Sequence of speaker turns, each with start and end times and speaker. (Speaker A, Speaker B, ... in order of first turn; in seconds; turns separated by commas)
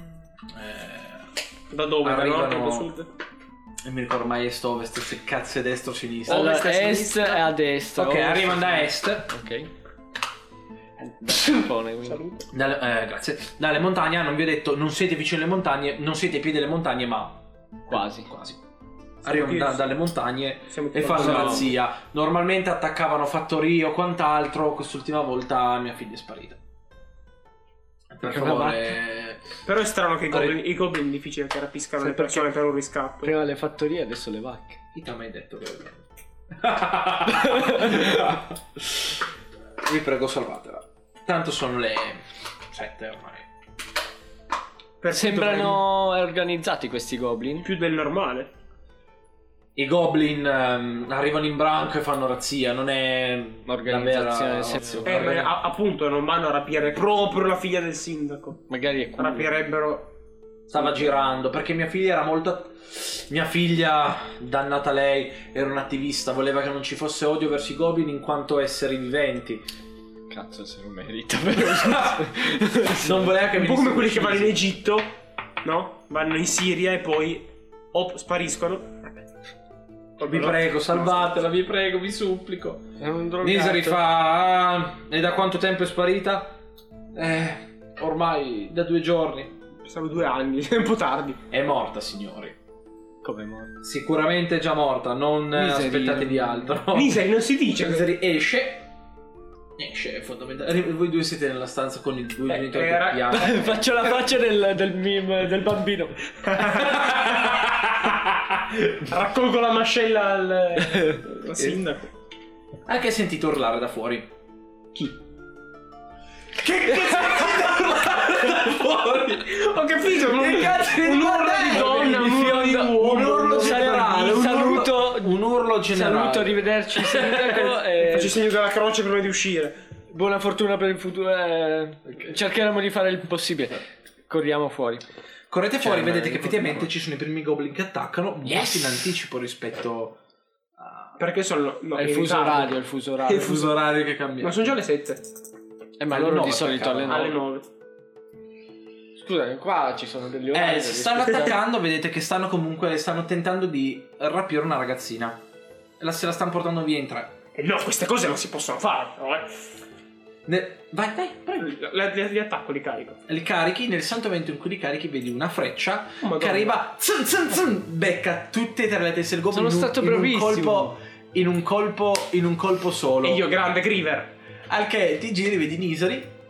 Speaker A: 0.5-1.3, Speaker B: 1.7-3.1, Speaker A: 2.0-2.9, Speaker A: 3.8-6.5, Speaker B: 6.3-7.5, Speaker C: 6.3-9.7, Speaker A: 8.0-9.3, Speaker C: 11.0-12.2, Speaker B: 12.1-12.5, Speaker A: 12.5-18.6, Speaker C: 17.9-18.3, Speaker A: 19.2-26.6, Speaker B: 19.2-20.0, Speaker B: 20.7-21.7, Speaker C: 21.1-21.7, Speaker A: 28.1-29.6, Speaker C: 28.2-29.0, Speaker B: 29.6-33.3, Speaker A: 30.3-30.6, Speaker C: 32.0-32.5, Speaker C: 33.2-34.8, Speaker A: 34.9-39.2, Speaker C: 37.3-38.3, Speaker A: 39.8-43.5, Speaker B: 45.0-45.8, Speaker C: 45.1-47.7, Speaker B: 47.6-48.5, Speaker A: 49.8-55.5, Speaker C: 53.7-55.5, Speaker B: 55.0-58.6, Speaker C: 58.7-59.5, Speaker B: 59.2-60.1, Speaker A: 60.7-69.7, Speaker C: 70.3-73.3, Speaker A: 71.6-74.7, Speaker B: 73.4-79.1, Speaker B: 80.2-81.4, Speaker A: 80.2-82.9, Speaker C: 83.0-84.0, Speaker A: 83.4-86.6, Speaker A: 87.1-89.5, Speaker B: 89.8-91.4, Speaker A: 91.5-92.6, Speaker C: 93.2-93.8, Speaker A: 93.8-98.9, Speaker C: 95.5-96.8, Speaker B: 96.9-98.1, Speaker A: 99.8-104.2, Speaker B: 102.5-103.5, Speaker C: 103.3-106.5, Speaker B: 106.5-107.6, Speaker A: 106.6-109.0, Speaker B: 108.9-112.1, Speaker C: 110.9-111.2, Speaker A: 111.6-111.8, Speaker A: 112.9-114.3, Speaker A: 116.5-126.7, Speaker B: 117.2-117.8, Speaker B: 119.5-124.3, Speaker C: 121.8-122.9, Speaker C: 123.4-128.4, Speaker B: 127.4-129.8, Speaker C: 130.1-135.0, Speaker A: 135.5-140.2, Speaker C: 135.8-136.9, Speaker C: 138.5-139.0, Speaker A: 140.8-141.2, Speaker B: 141.2-142.8, Speaker C: 142.0-143.7, Speaker A: 143.3-144.7, Speaker B: 143.3-143.6, Speaker B: 144.4-145.4, Speaker C: 146.0-147.4, Speaker A: 146.1-147.3, Speaker B: 147.1-147.7, Speaker C: 149.2-151.6, Speaker A: 150.5-155.4, Speaker A: 156.0-157.3, Speaker B: 157.6-159.8, Speaker A: 160.5-161.8, Speaker B: 161.6-163.2, Speaker A: 163.3-173.5, Speaker B: 166.2-166.8, Speaker C: 169.5-170.9, Speaker B: 173.2-174.3, Speaker A: 174.7-176.3